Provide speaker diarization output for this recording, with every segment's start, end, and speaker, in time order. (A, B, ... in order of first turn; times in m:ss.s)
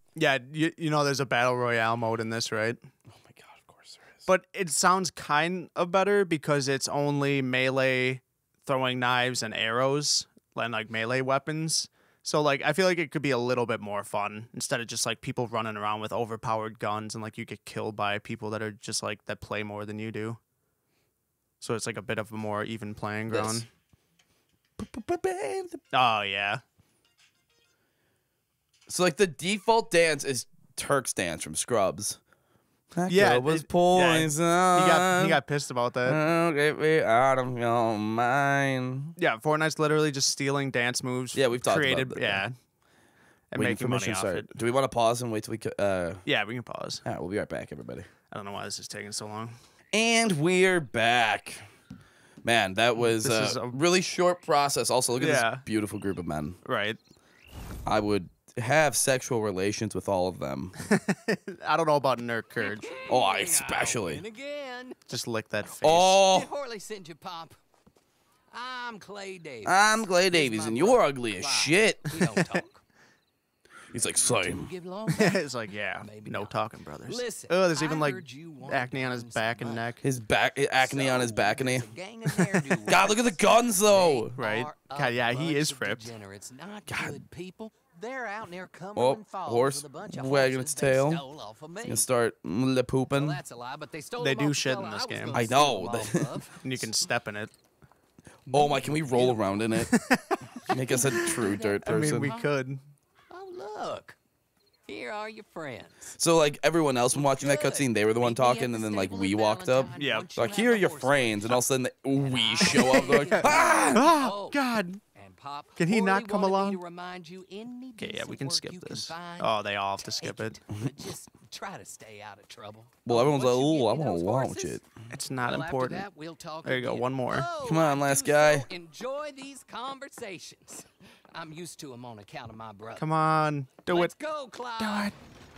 0:00.2-0:02.8 A
0:03.2-0:04.0 B
0:04.2-0:20.4 A
0:21.6-0:23.7 A
0:23.3-0:23.6 B
0:24.8-0:25.8 B
0:25.9-0:26.6 A
0:28.9-0:32.2 B
0:33.0-0:35.4 B
0:33.1-0:36.2 A
0:36.0-0:39.1 B
0:39.2-0:42.5 A
0:41.3-0:42.4 B
0:43.5-0:44.5 A
0:43.5-0:46.2 B
0:46.2-0:47.0 A
0:47.0-0:48.1 B
0:48.3-0:49.6 A
0:49.9-0:51.6 B
0:52.4-0:56.6 B
0:53.0-0:53.8 A
0:55.2-0:55.6 A
0:56.6-0:57.0 A
0:57.8-1:00.7 B
1:00.8-1:02.9 A
1:02.6-1:05.0 C
1:03.1-1:04.2 B
1:05.1-1:06.2 A
1:05.8-1:06.5 B
1:06.2-1:07.6 C
1:08.5-1:12.8 C
1:09.6-1:12.3 B
1:13.9-1:14.7 B
1:14.0-1:16.5 C
1:15.1-1:20.0 A
1:17.1-1:19.9 C
1:20.0-1:24.3 B
1:20.8-1:32.1 C
1:24.4-1:26.1 A
1:26.9-1:27.2 B
1:28.9-1:31.2 B
1:31.8-1:33.4 B
1:33.1-1:36.9 C
1:34.2-1:35.4 A
1:35.3-1:36.4 B
1:36.6-1:37.5 A
1:38.5-1:39.9 B
1:38.5-1:39.4 C
1:39.8-1:40.5 A
1:40.7-1:42.5 C
1:40.7-1:42.3 B
1:41.1-1:42.8 A
1:43.3-1:44.2 C
1:44.8-1:46.1 C
1:46.2-1:54.1 B
1:47.1-1:51.6 C
1:50.0-1:50.3 A
1:52.1-1:54.6 C
1:52.7-1:55.0 A
1:55.1-2:04.8 C
1:55.8-1:56.8 A
1:58.0-2:00.6 A
2:03.0-2:04.8 B
2:05.1-2:06.0 A
2:05.4-2:13.0 C
2:06.6-2:07.5 A
2:07.6-2:08.7 B
2:13.0-2:14.1 A
2:13.9-2:15.1 C
2:14.8-2:15.1 A